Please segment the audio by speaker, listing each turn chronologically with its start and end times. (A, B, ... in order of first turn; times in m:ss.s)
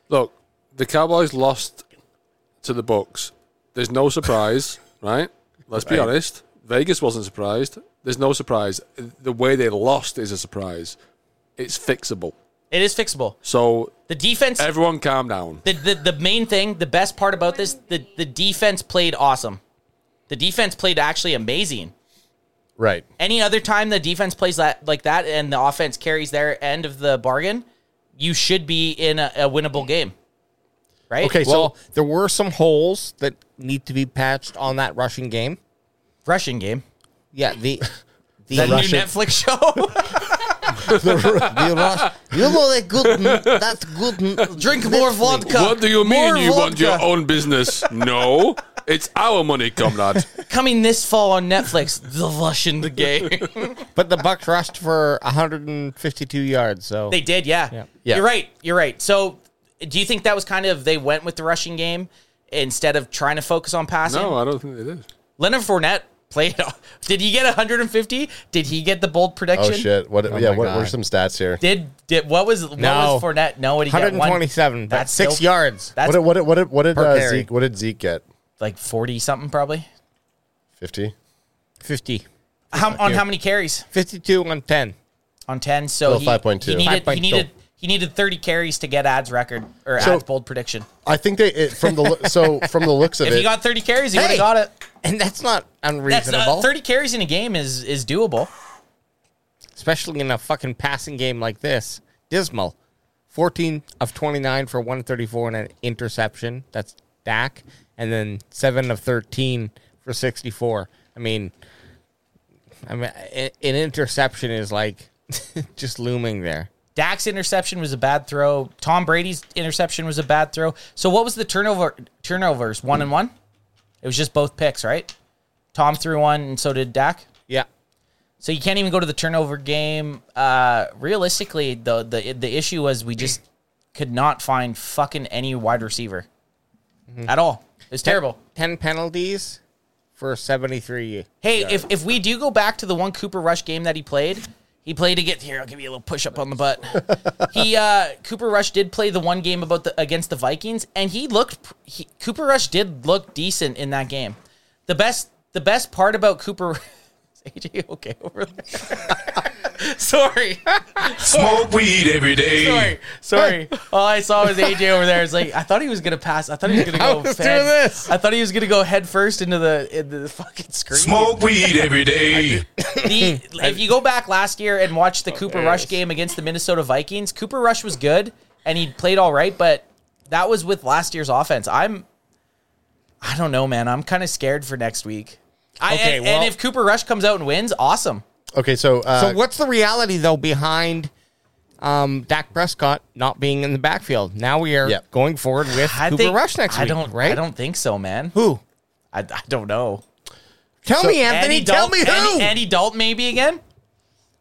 0:00.1-0:01.8 A
0:02.6-0:11.0 A
0:11.6-0:12.3 A
0:12.7-0:13.4 B
0:13.4-0:14.0 A
0:14.1-0:14.7 B
0:14.6-0:15.6 A
0:15.6-0:19.6 B
0:20.3-0:21.9 B
0:22.8-0:23.1 C
0:23.2-0:27.6 B
0:28.2-0:30.1 B
0:31.1-0:31.4 B
0:31.2-0:31.7 C
0:31.4-0:35.6 D
0:36.3-0:36.8 B
0:37.3-0:37.9 D
0:38.4-0:39.0 D
0:38.5-0:40.3 B
0:38.5-0:39.1 C
0:40.9-0:41.7 C
0:41.1-0:45.5 D
0:43.0-0:43.6 A
0:44.6-0:47.0 B
0:45.4-0:50.4 A
0:50.5-0:53.8 B
0:54.0-0:57.2 D
0:57.1-1:04.4 B
1:04.1-1:05.1 A
1:05.4-1:09.9 B
1:09.6-1:11.6 C
1:10.3-1:11.0 D
1:11.6-1:16.2 B
1:12.8-1:13.3 D
1:13.9-1:15.9 D
1:16.0-1:18.2 C
1:16.9-1:17.5 D
1:18.6-1:19.9 B
1:20.8-1:21.1 C
1:21.8-1:23.2 D
1:22.7-1:23.9 B
1:23.9-1:25.0 D
1:25.5-1:30.9 B
1:26.1-1:26.9 C
1:26.8-1:27.5 D
1:30.0-1:30.2 C
1:31.0-1:33.5 C
1:33.2-1:34.7 B
1:34.1-1:34.5 D
1:35.0-1:36.7 D
1:36.1-1:38.5 B
1:39.8-1:42.8 D
1:43.3-1:51.5 D
1:52.9-1:56.7 D
1:57.0-2:03.3 B
2:04.0-2:05.1 B
2:05.7-2:07.3 B
2:08.4-2:13.4 B
2:14.0-2:16.3 B
2:17.3-2:18.4 B
2:18.0-2:19.6 D
2:20.2-2:21.8 D
2:21.4-2:36.8 B
2:37.4-2:41.8 B
2:41.3-2:42.9 E
2:42.4-3:02.0 B
2:46.7-2:48.1 D
2:51.0-2:52.1 E
2:51.9-2:52.6 A
2:52.3-2:53.8 D
2:55.3-2:56.0 D
3:03.2-3:08.2 B
3:05.9-3:06.5 D
3:08.6-3:09.4 C
3:09.1-3:11.1 D
3:11.8-3:17.4 D
3:15.7-3:18.4 B
3:18.3-3:18.6 D
3:19.1-3:20.0 B
3:20.8-3:22.6 D
3:21.2-3:23.6 B